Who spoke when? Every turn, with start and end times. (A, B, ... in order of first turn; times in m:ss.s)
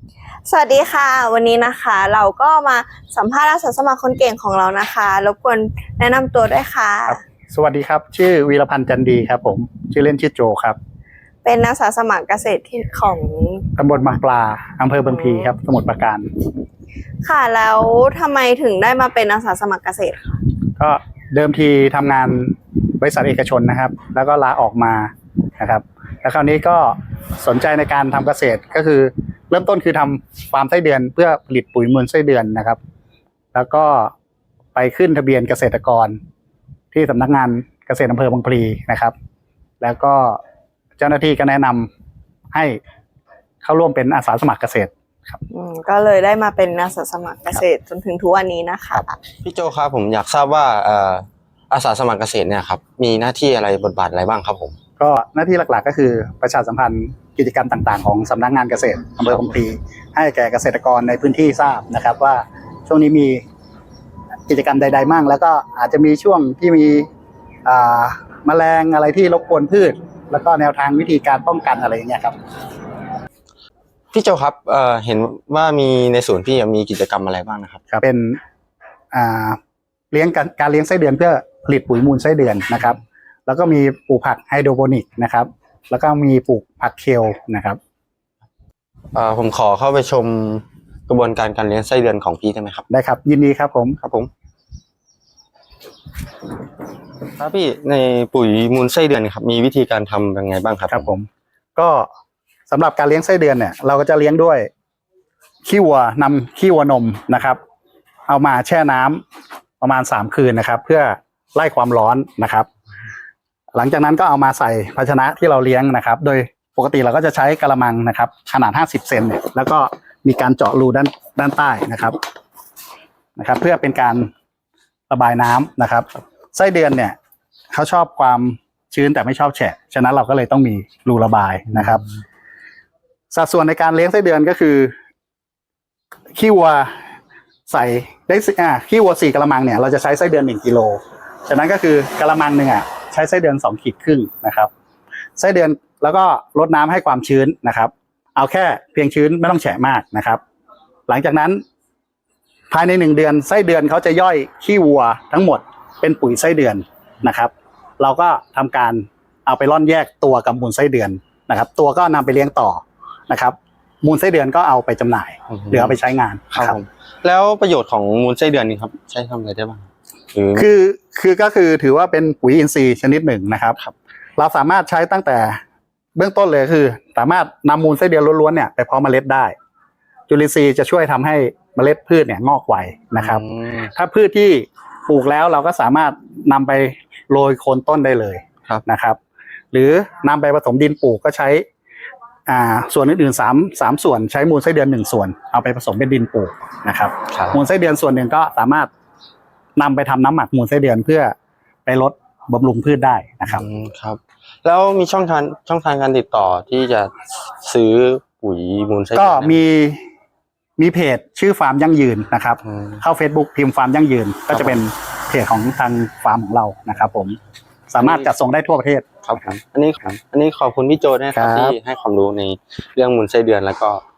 0:00.5-0:07.2 A
0:07.1-0:10.8 B
0:11.4-0:13.7 A
0:13.8-0:16.2 B
0:15.0-0:15.5 A
0:17.2-0:20.3 A
0:20.8-0:32.8 B
0:33.5-0:34.1 B
0:34.7-0:36.2 B
0:36.9-0:39.1 B
0:39.8-0:40.4 B
0:41.0-0:41.9 B
0:42.5-0:42.8 B
0:43.6-0:45.4 B
0:45.5-0:49.2 A
0:49.4-0:54.8 C
0:55.0-1:03.4 B
1:04.5-1:07.1 B
1:07.6-1:12.4 B
1:14.1-1:17.8 C
1:17.9-1:18.4 B
1:19.1-1:19.6 B
1:20.1-1:27.8 B
1:29.1-1:32.8 C
1:32.9-1:34.0 B
1:34.0-1:34.3 C
1:37.4-1:41.1 C
1:40.9-1:42.1 B
1:42.7-1:44.7 B
1:45.6-1:47.6 B
1:48.3-1:49.2 B
1:49.8-1:52.7 B
1:53.7-2:02.2 B
2:03.4-2:04.3 B
2:05.1-2:07.2 B
2:07.7-2:12.0 B
2:13.3-2:14.9 B
2:16.3-2:16.9 B
2:17.7-2:24.7 B
2:25.4-2:30.4 B
2:31.1-2:31.6 B
2:32.7-2:46.8 B
2:45.5-2:46.0 C
2:46.5-2:50.6 C
2:50.5-2:53.8 B
2:54.4-2:55.6 B
2:56.2-2:59.5 B
3:00.3-3:09.2 B
3:03.2-3:03.9 C
3:09.7-3:11.6 B
3:12.5-3:18.9 B
3:17.3-3:17.6 C
3:19.8-3:21.3 B
3:21.8-3:23.6 B
3:23.5-3:29.6 C
3:29.2-3:30.0 B
3:30.8-3:37.4 B
3:32.7-3:33.0 C
3:34.5-3:34.8 C
3:37.9-3:39.1 B
3:38.0-3:38.3 C
3:39.2-3:44.0 C
3:41.3-3:41.8 B